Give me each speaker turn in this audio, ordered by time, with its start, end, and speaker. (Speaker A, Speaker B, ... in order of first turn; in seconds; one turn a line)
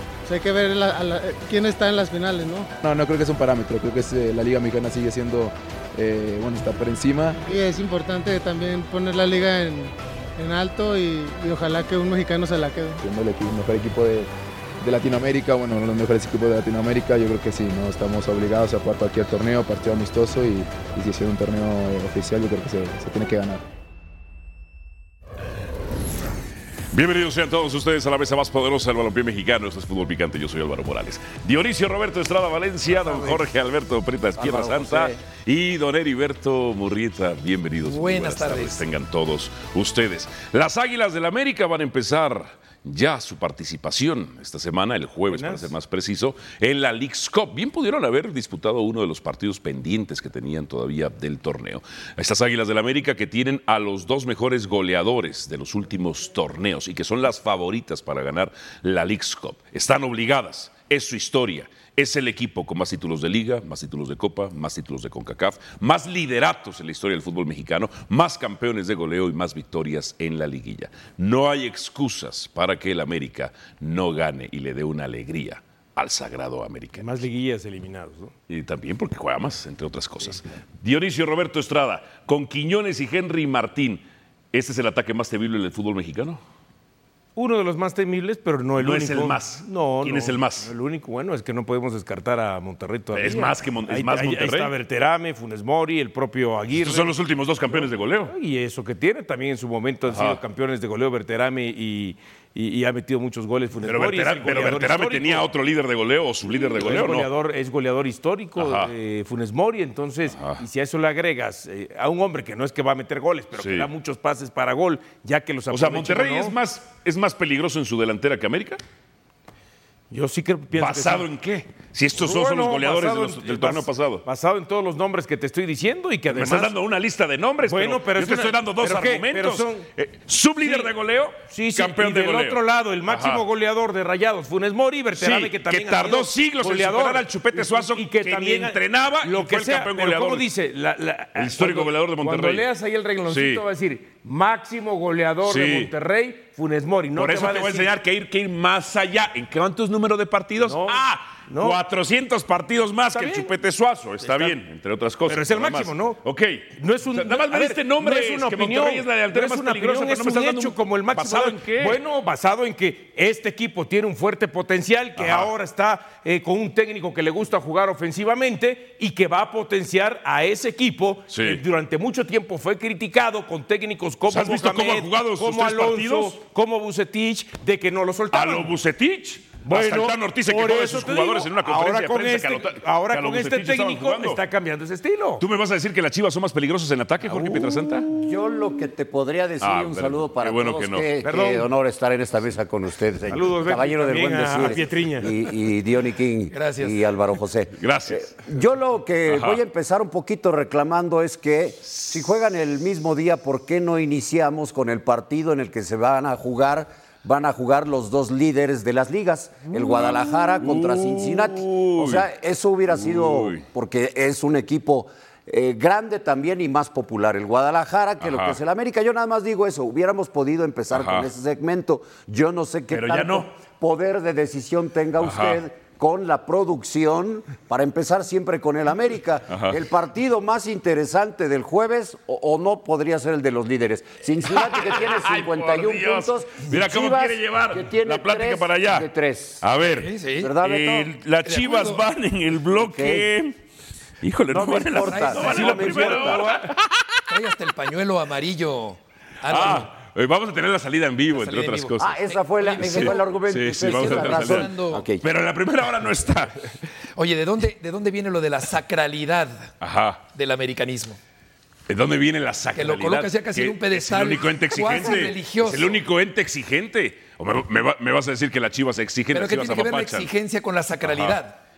Speaker A: 0.2-2.7
Speaker B: 2.8-7.4
Speaker A: 7.4-13.0
Speaker B: 13.0-14.3
Speaker B: 14.8-23.6
Speaker C: 26.9-77.1
Speaker D: 34.4-35.2
Speaker E: 37.8-38.8
Speaker F: 45.3-45.7
Speaker F: 77.0-78.3
Speaker C: 78.5-86.4
Speaker F: 87.3-97.1
Speaker C: 88.8-90.7
Speaker C: 93.1-94.7
Speaker C: 96.7-98.3
Speaker F: 97.7-105.5
Speaker C: 100.1-100.4
Speaker C: 103.8-107.3
Speaker F: 106.5-116.5
Speaker C: 108.6-108.9
Speaker C: 110.3-110.6
Speaker C: 113.5-113.9
Speaker C: 115.7-118.8
Speaker F: 120.1-121.2
Speaker C: 120.7-124.2
Speaker F: 122.2-126.7
Speaker C: 126.3-133.4
Speaker F: 127.6-129.9
Speaker F: 130.6-130.9
Speaker F: 131.5-147.9
Speaker C: 135.2-140.5
Speaker C: 141.3-142.7
Speaker C: 143.3-143.6
Speaker C: 145.4-145.9
Speaker C: 147.2-162.0
Speaker F: 150.6-151.8
Speaker F: 153.1-153.5
Speaker F: 154.2-154.6
Speaker F: 155.3-156.2
Speaker F: 156.8-178.7
Speaker C: 165.2-165.5
Speaker C: 171.3-171.6
Speaker C: 174.3-176.4
Speaker C: 178.3-184.4
Speaker F: 179.6-185.4
Speaker C: 185.4-188.1
Speaker F: 187.3-188.0
Speaker D: 188.1-239.6
Speaker C: 189.6-191.1
Speaker F: 191.2-191.7
Speaker F: 193.3-195.3
Speaker E: 196.5-197.0
Speaker C: 197.8-198.3
Speaker C: 199.3-199.6
Speaker C: 209.7-212.2
Speaker C: 212.9-213.6
Speaker C: 218.2-218.6
Speaker C: 220.9-221.3
Speaker C: 222.9-223.5
Speaker C: 225.2-225.6
Speaker C: 229.5-229.8
Speaker C: 234.4-239.1
Speaker C: 239.6-243.6
Speaker E: 239.9-240.5
Speaker D: 240.4-241.1
Speaker E: 241.4-242.0
Speaker D: 242.8-243.3
Speaker C: 244.2-247.2
Speaker D: 244.5-246.6
Speaker E: 245.0-245.9
Speaker F: 245.8-246.6
Speaker E: 247.3-249.9
Speaker C: 249.4-256.7
Speaker E: 251.3-253.2
Speaker D: 252.0-255.2
Speaker E: 253.8-255.1
Speaker E: 257.1-259.7
Speaker C: 259.8-260.2
Speaker E: 260.3-261.2
Speaker C: 261.9-270.3
Speaker E: 262.7-266.0
Speaker E: 269.3-271.6
Speaker C: 271.0-271.4